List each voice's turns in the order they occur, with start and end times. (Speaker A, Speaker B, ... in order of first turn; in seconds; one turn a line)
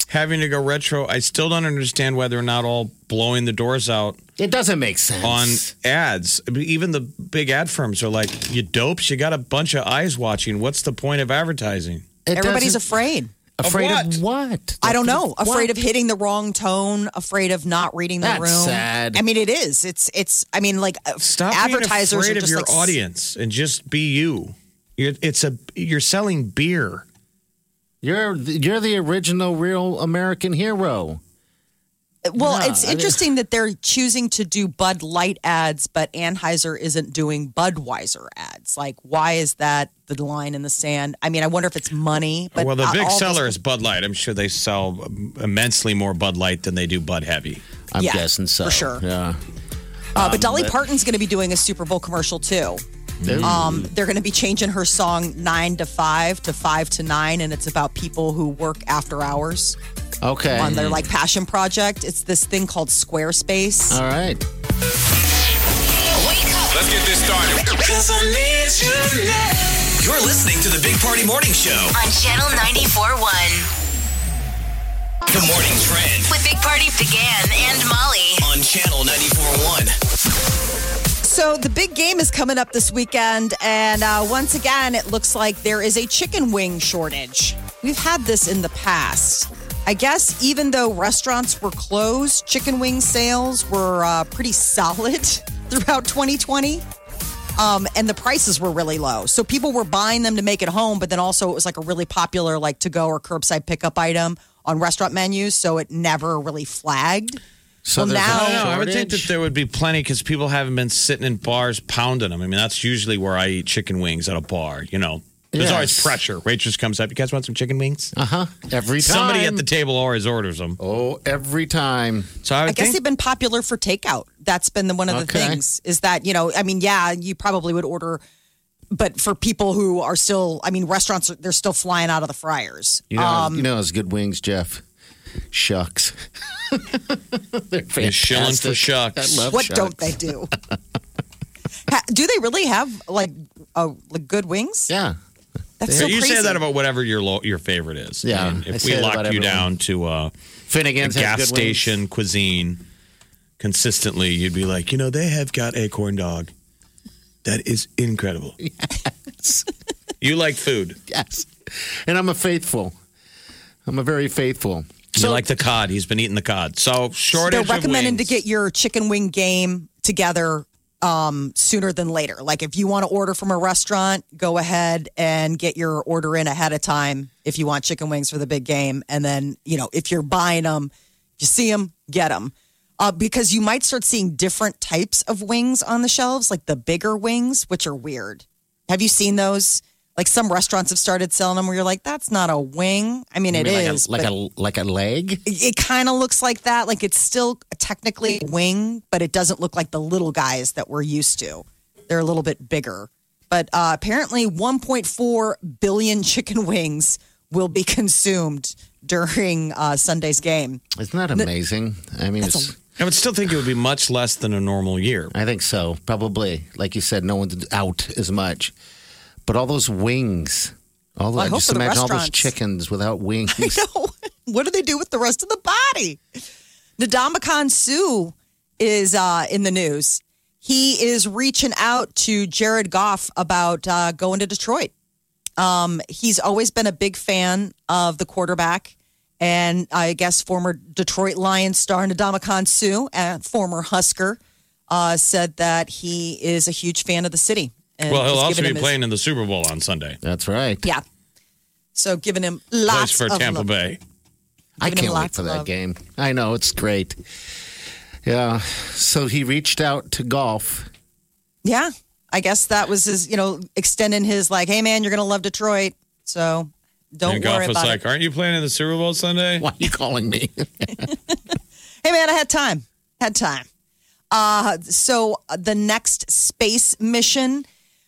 Speaker A: 0.1-4.2
Speaker B: 4.4-5.7
Speaker A: 5.2-12.1
Speaker B: 12.3-12.9
Speaker C: 12.3-13.3
Speaker B: 13.6-15.7
Speaker A: 13.6-14.2
Speaker C: 14.8-22.9
Speaker B: 18.2-19.2
Speaker A: 21.2-27.1
Speaker B: 28.0-31.2
Speaker C: 32.2-43.6
Speaker B: 32.4-33.2
Speaker A: 42.6-47.6
Speaker B: 47.9-49.4
Speaker C: 48.0-49.0
Speaker B: 50.1-50.8
Speaker C: 50.2-52.8
Speaker B: 53.2-53.9
Speaker C: 53.4-59.8
Speaker B: 60.2-61.0
Speaker C: 60.5-64.0
Speaker A: 60.7-61.0
Speaker B: 63.9-64.4
Speaker D: 66.2-66.9
Speaker E: 70.0-72.0
Speaker D: 71.9-73.7
Speaker E: 75.3-76.3
Speaker D: 76.3-78.5
Speaker E: 78.4-80.0
Speaker C: 81.2-96.8
Speaker C: 97.6-107.4
Speaker B: 107.8-109.3
Speaker C: 108.0-108.7
Speaker A: 108.3-118.1
Speaker B: 115.5-116.2
Speaker B: 118.2-119.7
Speaker A: 119.0-120.8
Speaker B: 120.8-122.3
Speaker A: 122.4-123.0
Speaker C: 122.7-128.2
Speaker B: 125.1-125.6
Speaker C: 128.9-133.7
Speaker B: 133.1-134.8
Speaker B: 135.5-140.8
Speaker A: 138.0-139.5
Speaker C: 139.5-140.5
Speaker C: 141.9-144.9
Speaker B: 144.9-145.2
Speaker C: 145.8-146.6
Speaker B: 145.8-146.2
Speaker A: 145.9-150.3
Speaker B: 148.2-149.7
Speaker B: 150.7-151.9
Speaker A: 151.0-152.8
Speaker A: 153.6-156.5
Speaker A: 157.4-158.6
Speaker B: 158.6-159.7
Speaker A: 160.2-161.0
Speaker B: 161.1-163.0
Speaker B: 163.9-165.5
Speaker A: 165.2-168.3
Speaker C: 167.3-194.3
Speaker B: 193.5-195.4
Speaker C: 195.5-210.8
Speaker B: 210.9-212.8
Speaker C: 212.4-212.7
Speaker A: 213.0-215.3
Speaker B: 215.3-218.7
Speaker B: 219.4-223.8
Speaker C: 221.4-222.5
Speaker C: 223.5-226.2
Speaker C: 227.0-234.9
Speaker C: 235.6-248.9
Speaker A: 248.1-250.2
Speaker B: 250.2-250.9
Speaker C: 251.9-253.7
Speaker A: 252.9-254.0
Speaker B: 254.8-257.2
Speaker C: 254.8-255.7
Speaker B: 258.2-260.9
Speaker C: 261.6-268.0
Speaker A: 267.3-269.7
Speaker B: 269.6-271.1
Speaker C: 272.0-273.7
Speaker C: 274.3-277.7